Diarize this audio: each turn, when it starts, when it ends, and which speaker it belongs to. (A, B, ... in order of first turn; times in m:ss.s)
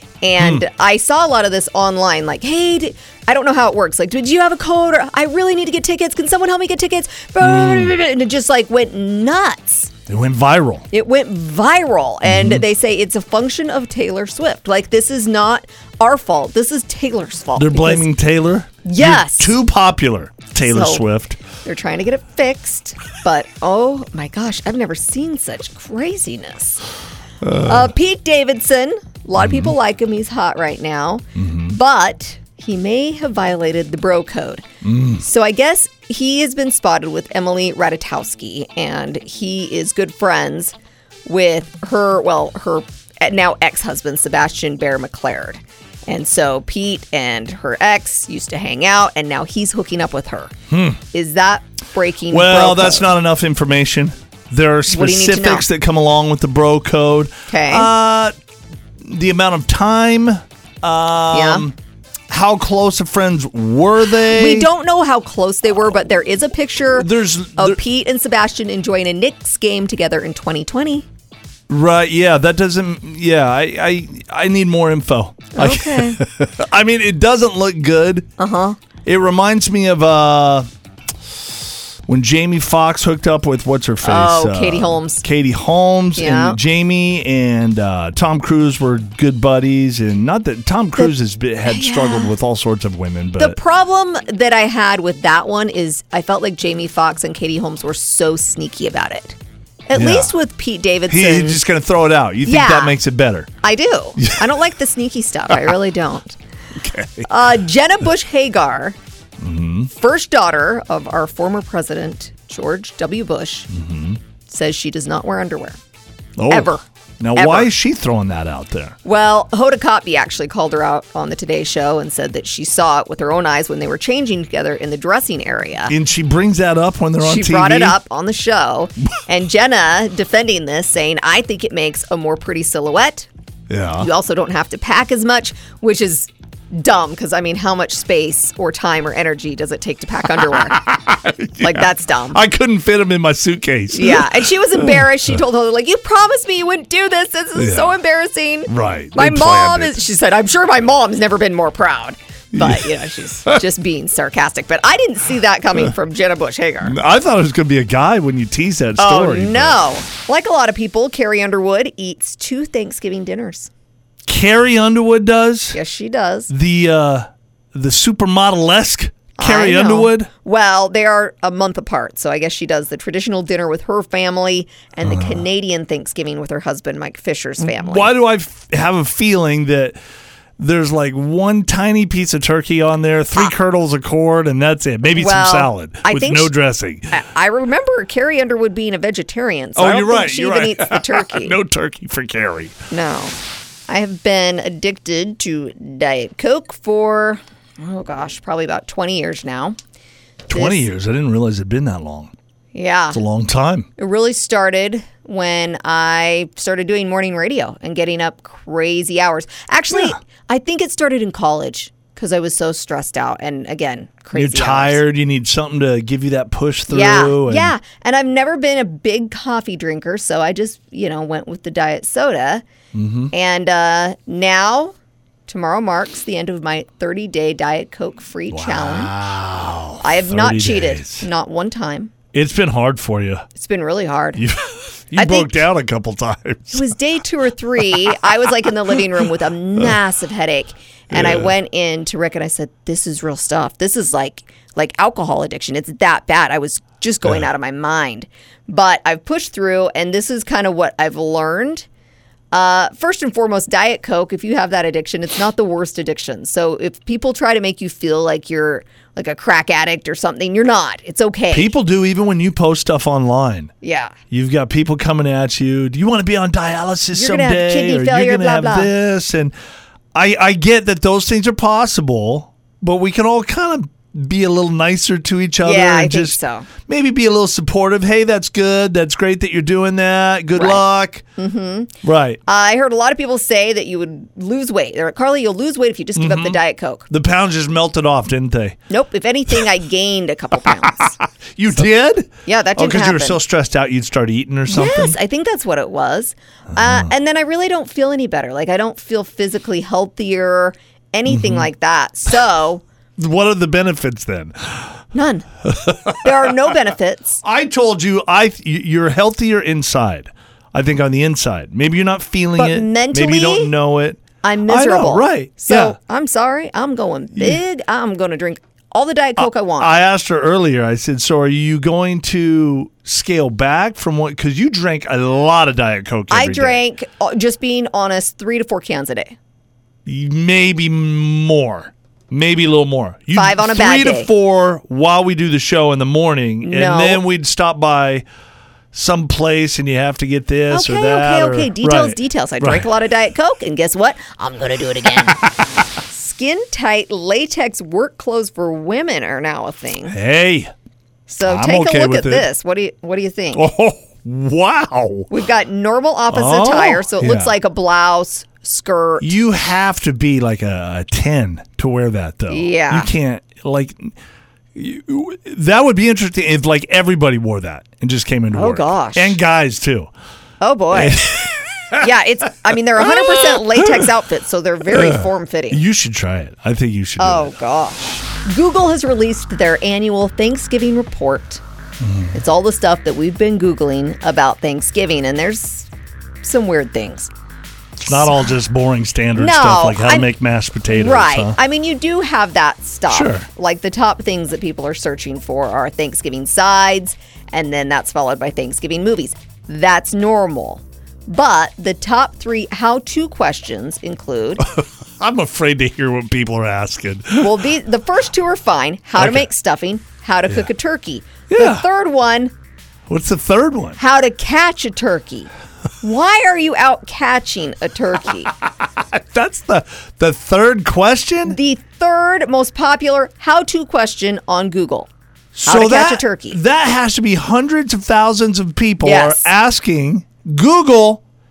0:00.2-0:09.9 A
0:00.4-0:00.6 B
0:07.4-0:07.9 B
0:10.1-0:10.9 B
0:10.9-0:18.1 A
0:12.2-0:12.6 B
0:17.6-0:21.4 B
0:18.8-0:19.6 A
0:20.6-0:21.0 A
0:21.6-0:26.8 A
0:27.4-0:27.9 B
0:27.6-0:34.6 A
0:29.4-0:29.7 B
0:31.4-0:31.8 B
0:34.8-0:35.2 B
0:35.2-0:40.8 A
0:41.2-0:50.5 A
0:50.7-0:51.0 B
0:51.1-0:53.1 A
0:52.3-0:58.4 B
0:54.9-0:55.7 A
0:57.5-0:57.9 A
0:59.0-1:01.8 B
1:01.3-1:01.7 A
1:02.3-1:04.7 B
1:04.2-1:11.1 A
1:06.9-1:07.8 B
1:11.7-1:18.3 B
1:15.6-1:16.2 A
1:18.4-1:18.8 A
1:19.0-1:20.7 B
1:22.1-1:33.6 B
1:24.0-1:25.2 A
1:26.2-1:26.6 A
1:31.7-1:32.3 A
1:33.4-1:41.6 A
1:40.0-1:40.3 B
1:41.1-1:43.5 B
1:42.4-1:43.0 A
1:43.6-1:46.4 A
1:44.2-1:44.5 B
1:46.8-1:47.3 B
1:47.2-1:49.0 A
1:49.4-1:49.9 B
1:49.9-1:53.7 A
1:53.7-1:54.2 B
1:54.5-1:55.8 A
1:56.4-1:59.0 B
1:56.5-1:56.8 A
1:57.4-1:57.7 A
1:59.0-2:06.0 A
2:05.9-2:08.0 B
2:07.2-2:13.3 A
2:13.7-2:14.1 B
2:14.0-2:20.8 A
2:20.4-2:25.3 B
2:21.6-2:22.4 A
2:23.9-2:37.0 A
2:27.6-2:28.0 B
2:28.7-2:30.0 B
2:32.5-2:32.9 B
2:36.8-2:39.8 B
2:39.0-2:43.7 A
2:44.2-2:45.8 B
2:45.7-2:46.5 A
2:46.5-2:50.3 B
2:49.4-2:58.1 A
2:55.0-2:55.4 B
2:57.6-3:00.0 B
3:00.6-3:07.1 B
3:05.2-3:06.5 A
3:07.1-3:11.6 A
3:09.8-3:12.8 B
3:12.9-3:13.4 A
3:13.9-3:19.8 A
3:20.5-3:22.3 B
3:20.5-3:20.8 A
3:22.7-3:23.2 A
3:23.1-3:23.9 B
3:24.0-3:35.0 A
3:34.3-3:37.7 B
3:36.9-3:42.6 A
3:42.9-3:43.3 B
3:43.3-3:44.9 A
3:45.5-3:49.1 A
3:48.5-3:51.3 B
3:50.0-3:52.1 A
3:52.3-3:53.5 B
3:53.6-3:54.4 A
3:54.4-3:56.9 B
3:55.2-3:55.6 A
3:56.7-4:11.9 A
4:01.1-4:01.5 B
4:12.5-4:21.7 A
4:21.5-4:23.7 B
4:23.8-4:24.1 A
4:24.3-4:29.5 B
4:27.1-4:28.9 A
4:30.1-4:41.2 B
4:35.6-4:36.7 A
4:40.6-4:40.8 A
4:41.4-4:41.9 A
4:42.0-4:42.4 B
4:42.5-4:47.1 A
4:46.2-4:48.8 B
4:48.9-4:51.2 A
4:50.8-4:55.2 B
4:52.4-4:53.4 A
4:54.7-5:02.8 A
4:56.7-4:57.1 B
5:01.3-5:01.7 B
5:03.2-5:04.9 B
5:05.1-5:05.5 A
5:05.6-5:06.5 B
5:06.2-5:07.4 A
5:07.4-5:16.0 B
5:12.6-5:13.7 A
5:14.4-5:19.9 A
5:19.4-5:26.8 B
5:26.3-5:29.4 A
5:30.0-5:38.2 B
5:33.3-5:34.3 A
5:36.6-5:37.2 A
5:38.9-5:42.9 B
5:40.7-5:45.4 A
5:46.1-5:50.2 A
5:50.1-5:50.7 B
5:51.3-5:53.7 A
5:51.4-5:52.5 B
5:53.5-5:55.3 B
5:55.3-5:59.3 A
5:56.3-5:57.5 B
5:59.2-6:04.1 B
6:02.5-6:03.1 A
6:04.8-6:10.1 B
6:08.5-6:09.4 A
6:10.6-6:11.3 A
6:10.9-6:12.1 B
6:12.0-6:15.8 A
6:13.0-6:14.1 B
6:14.9-6:17.6 B
6:17.2-6:21.6 A
6:22.0-6:22.4 B
6:22.3-6:25.9 A
6:26.4-6:27.3 A
6:28.0-6:28.5 A
6:28.0-6:31.6 B
6:29.4-6:30.3 A
6:30.9-6:44.6 A
6:33.1-6:33.5 B
6:44.6-6:47.6 B
6:47.4-6:52.5 A
6:49.2-6:49.5 B
6:51.5-6:51.9 B
6:53.1-6:54.0 B
6:54.0-6:55.5 A
6:56.0-6:58.5 A
6:58.8-7:01.6 B
7:01.4-7:05.1 A
7:05.5-7:11.2 B
7:05.6-7:06.6 A
7:09.0-7:09.5 A